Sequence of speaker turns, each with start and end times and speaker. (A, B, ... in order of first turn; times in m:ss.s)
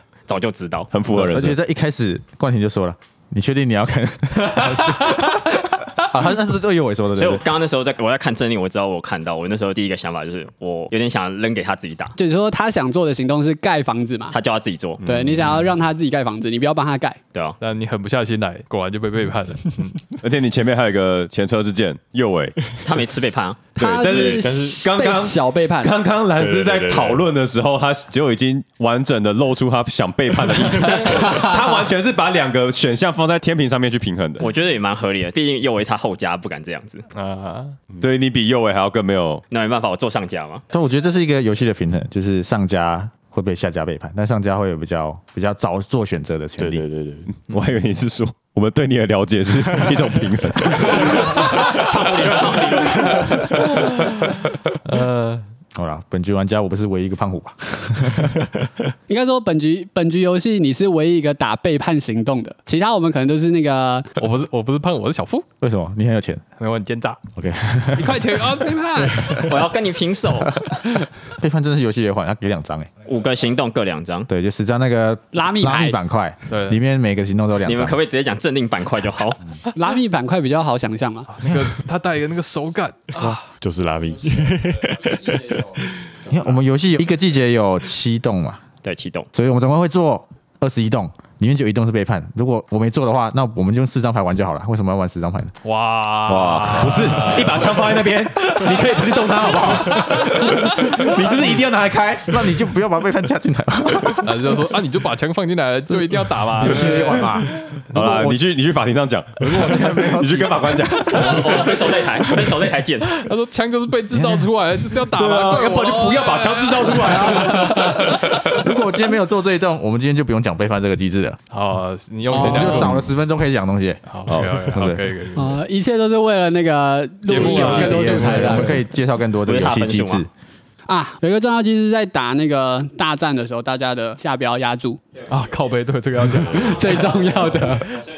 0:00.3-0:00.9 A
0:00.9-0:01.6 B
0:01.1-0:07.4 C
0:07.1-0:12.1 A
0:12.2-0:14.4 D
0:14.3-0:15.0 A
0:15.0-0:17.2 D
0:17.6-0:20.0 E
0:20.2-0:22.6 B
0:22.8-0:23.7 A
0:23.8-0:26.0 D
0:23.8-0:34.4 B
0:24.0-0:24.8 F
0:26.4-0:27.3 F
0:30.8-0:31.5 A
0:34.4-0:37.0 A
0:37.1-0:37.8 E
0:38.0-0:39.4 B
0:39.5-0:40.6 A
0:40.7-0:46.8 C
0:46.6-0:47.4 F
0:47.5-0:51.4 B
0:50.9-0:53.4 A
0:53.5-0:55.4 E
0:55.7-0:58.5 C
0:59.1-1:04.1 D
1:04.2-1:05.4 E
1:05.6-1:06.4 C
1:06.6-1:07.2 E
1:07.4-1:08.6 C
1:07.9-1:09.5 E
1:09.2-1:09.5 C
1:09.3-1:10.6 A
1:10.6-1:12.9 C
1:13.0-1:14.3 A
1:14.3-1:18.0 C
1:15.3-1:16.0 D
1:16.5-1:16.8 E
1:17.6-1:19.4 A
1:19.7-1:21.3 D
1:21.3-1:23.4 E
1:23.6-1:26.2 F
1:26.2-1:28.6 C
1:28.8-1:29.3 A
1:29.3-1:35.5 C
1:35.6-1:38.0 E
1:36.2-1:42.4 B
1:40.0-1:40.5 E
1:41.1-1:41.6 C
1:42.2-1:44.3 C
1:44.2-1:47.4 E
1:45.9-1:48.4 C
1:47.9-1:51.7 B
1:49.4-1:51.1 C
1:51.1-1:53.1 A
1:53.1-1:58.6 E
1:54.1-1:54.5 C
1:55.1-1:57.9 B
1:58.1-2:01.4 C
2:01.5-2:03.0 E
2:02.3-2:02.9 D
2:02.3-2:05.0 C
2:04.1-2:05.6 E
2:04.3-2:04.5 B
2:05.3-2:08.8 D
2:07.3-2:08.7 E
2:07.3-2:10.3 C
2:09.4-2:10.2 A
2:10.9-2:15.0 D
2:15.3-2:17.3 E
2:16.6-2:18.0 D